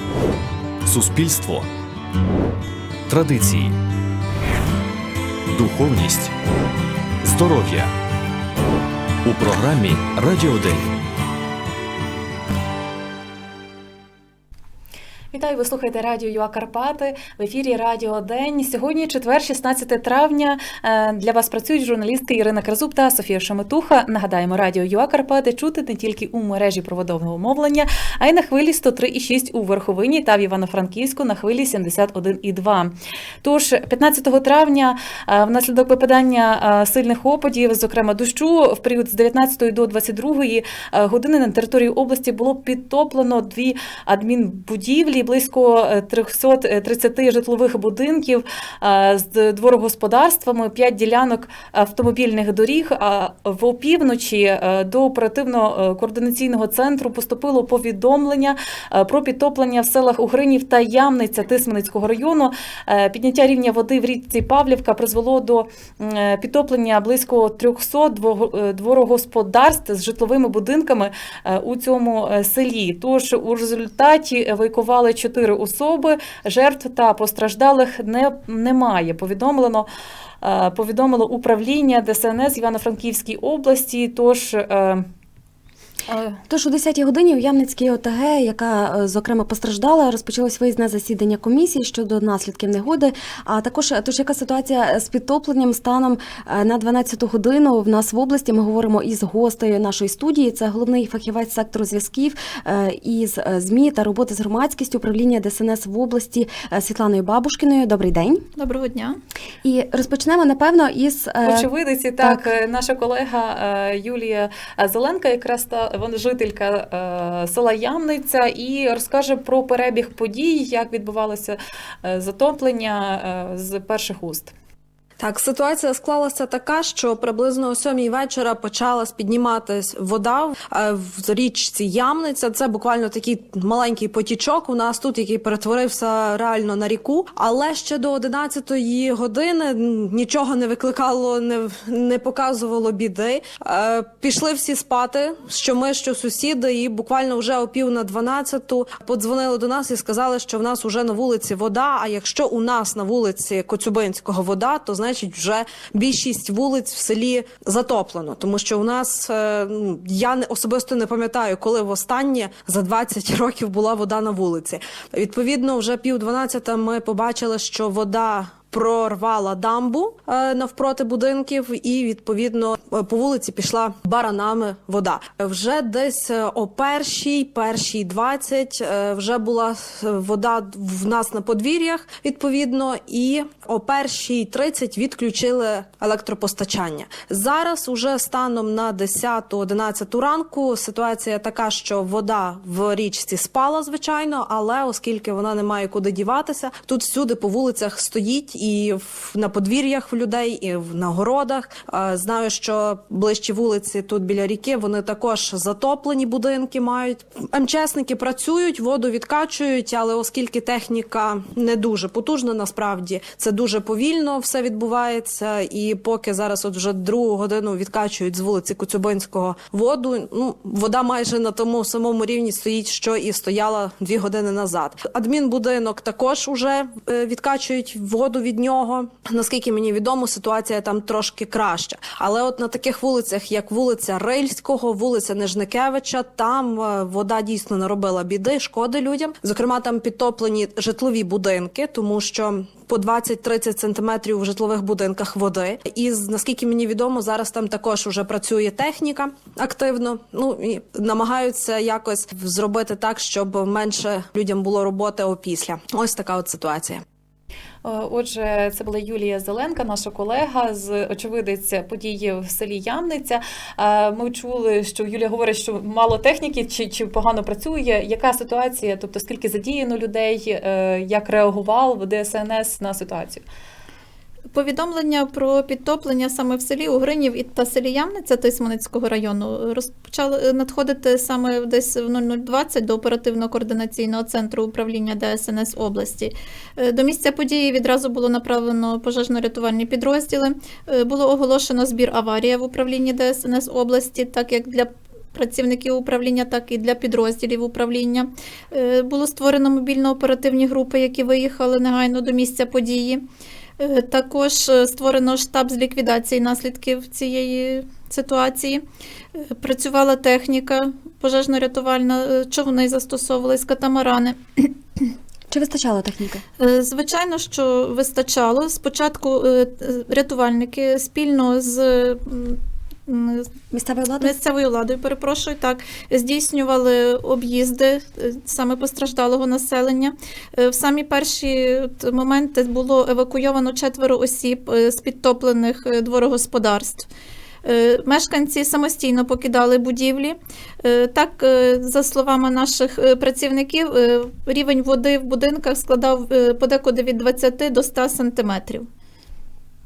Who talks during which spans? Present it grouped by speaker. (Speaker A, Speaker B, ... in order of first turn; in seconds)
Speaker A: 5.7-6.2, 7.4-7.9, 9.3-10.6
Speaker B: 15.3-79.9, 80.4-85.0, 86.1-86.4, 111.4-124.5, 257.8-273.4
Speaker C: 86.5-108.4, 109.6-112.4, 315.5-316.4, 323.7-324.3
Speaker D: 108.6-109.2, 274.5-303.2, 303.8-308.8, 309.4-314.7, 316.6-323.4, 324.2-337.1, 337.6-348.9
Speaker E: 125.2-257.0